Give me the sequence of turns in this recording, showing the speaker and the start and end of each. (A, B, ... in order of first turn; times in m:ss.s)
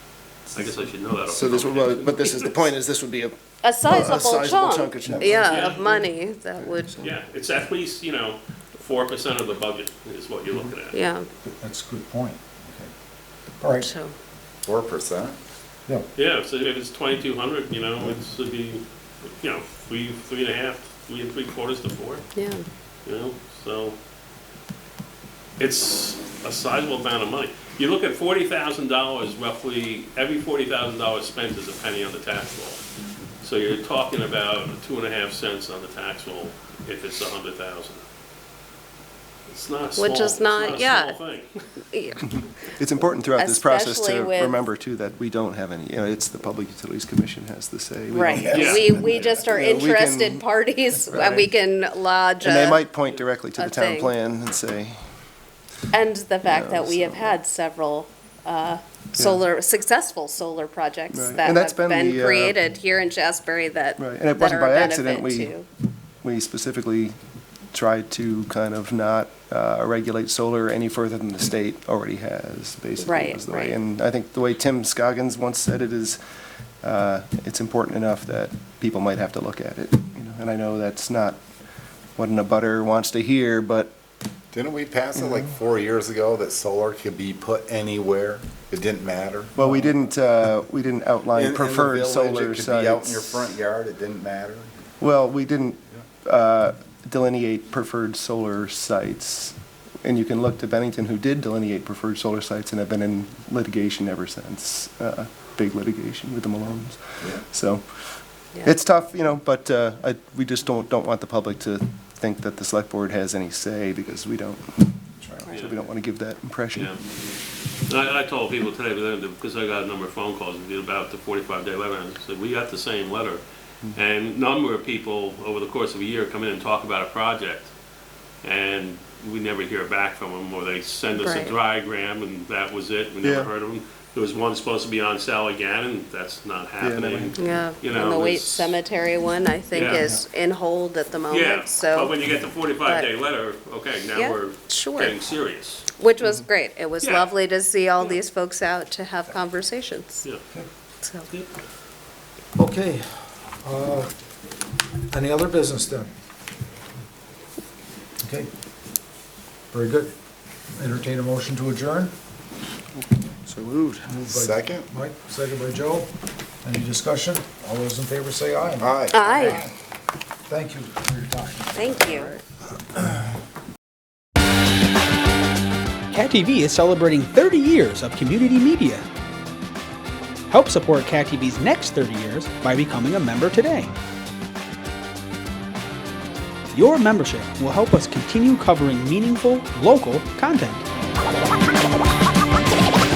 0:00.5-0:02.7 A
0:01.3-0:07.1 B
0:03.6-0:07.0 C
0:05.0-0:05.4 D
0:05.4-0:05.8 A
0:07.0-0:11.0 A
0:10.9-0:11.3 C
0:11.4-0:12.9 D
0:13.6-0:13.9 D
0:13.8-0:14.2 C
0:14.6-0:15.4 E
0:16.2-0:22.3 A
0:22.4-0:22.6 C
0:23.0-0:24.0 A
0:25.6-0:32.8 A
0:33.4-0:38.0 A
0:39.5-0:41.6 A
0:40.0-0:41.2 C
0:41.9-0:42.4 C
0:42.7-0:51.5 B
0:43.4-0:44.6 C
0:48.1-0:52.8 C
0:48.5-0:48.9 A
0:52.4-0:55.0 B
0:53.6-0:54.1 C
0:55.9-1:05.7 C
0:56.4-0:57.4 B
0:59.2-0:59.4 B
1:01.1-1:02.6 B
1:04.0-1:05.6 B
1:06.2-1:07.2 B
1:07.7-1:16.2 B
1:13.0-1:13.8 C
1:16.8-1:21.4 B
1:22.2-1:23.9 B
1:24.5-1:29.8 E
1:29.6-1:33.5 B
1:31.3-1:34.9 E
1:35.0-1:56.9 B
1:55.2-1:55.5 D
1:55.5-1:55.8 A
1:56.7-1:57.0 A
1:57.9-2:07.7 A
2:08.4-2:18.8 A
2:11.1-2:11.5 C
2:13.2-2:13.5 B
2:16.8-2:17.5 B
2:17.4-2:22.2 C
2:19.7-2:20.1 A
2:19.8-2:20.2 B
2:21.3-2:25.9 A
2:22.8-2:23.1 C
2:24.1-2:25.2 C
2:26.0-2:30.3 C
2:27.0-2:27.3 A
2:31.0-2:31.3 C
2:32.6-2:33.1 D
2:33.6-2:34.1 D
2:35.1-2:36.1 D
2:38.2-2:38.5 D
2:39.7-2:40.1 D
2:40.8-2:42.1 D
2:43.0-2:44.1 B
2:44.1-2:46.1 D
2:44.3-2:44.9 E
2:46.6-2:49.8 D
2:48.8-2:49.6 E
2:49.1-2:49.6 C
2:50.5-2:52.3 D
2:51.7-2:52.4 C
2:56.1-2:59.0 F
3:00.5-3:03.9 F
3:06.7-3:10.8 F